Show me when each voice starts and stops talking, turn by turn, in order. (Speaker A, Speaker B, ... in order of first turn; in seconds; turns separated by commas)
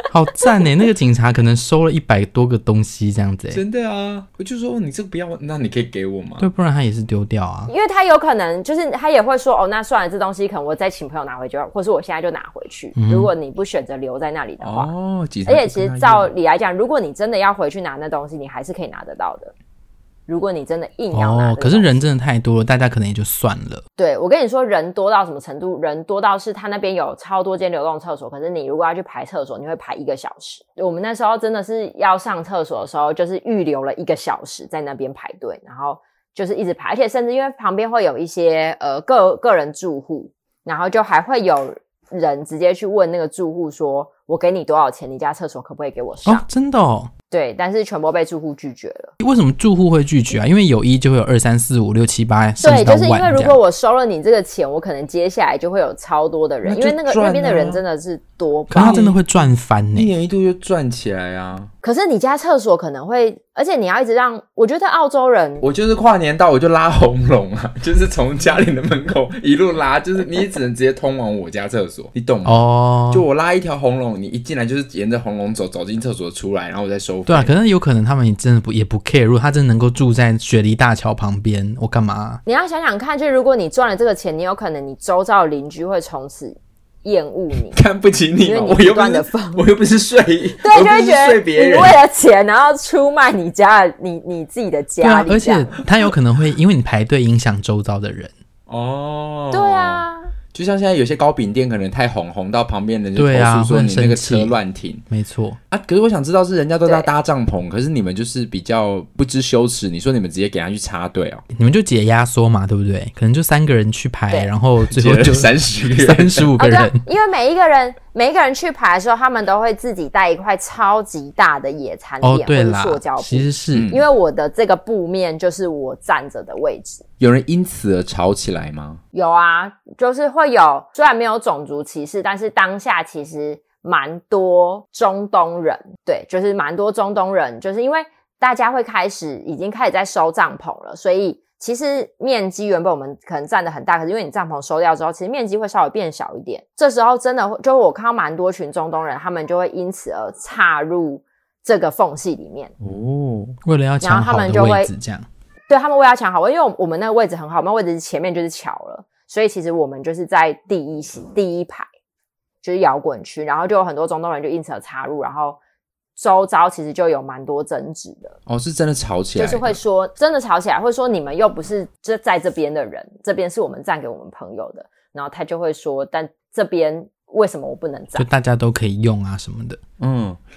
Speaker A: 0.1-3.6, Speaker B: 3.5-6.5, Speaker A: 6.4-7.7, Speaker C: 7.7-14.9, Speaker A: 13.0-13.3, Speaker B: 14.6-16.3, Speaker C: 15.5-19.5, Speaker C: 20.3-22.0, Speaker A: 21.1-23.8, Speaker C: 24.0-46.4, Speaker A: 46.3-47.1, Speaker C: 47.3-49.1, Speaker A: 49.2-53.6, Speaker C: 52.6-59.1, Speaker B: 56.6-57.8, Speaker A: 58.7-60.1, Speaker B: 58.8-59.2, Speaker B: 60.0-61.7, Speaker C: 61.8-65.7, Speaker B: 65.6-77.5, Speaker A: 72.5-73.3, Speaker A: 77.3-82.4, Speaker C: 82.5-87.8, Speaker B: 87.7-92.0, Speaker C: 88.4-89.7, Speaker C: 90.6-95.7, Speaker A: 95.0-98.3, Speaker B: 98.7-105.0, Speaker C: 99.5-100.3, Speaker A: 103.2-104.6, Speaker A: 105.1-105.6, Speaker B: 105.7-111.5, Speaker A: 111.5-117.0, Speaker B: 114.8-116.5, Speaker C: 116.6-127.0, Speaker A: 122.2-123.9, Speaker B: 123.7-124.0, Speaker B: 127.2-129.0, Speaker C: 129.1-152.7, Speaker B: 152.8-153.6, Speaker A: 153.7-155.3, Speaker C: 154.0-154.9, Speaker C: 155.7-161.9, Speaker C: 162.6-165.6, Speaker C: 166.2-168.4, Speaker B: 168.5-169.8, Speaker C: 169.4-178.3, Speaker A: 178.2-179.8, Speaker B: 180.0-180.4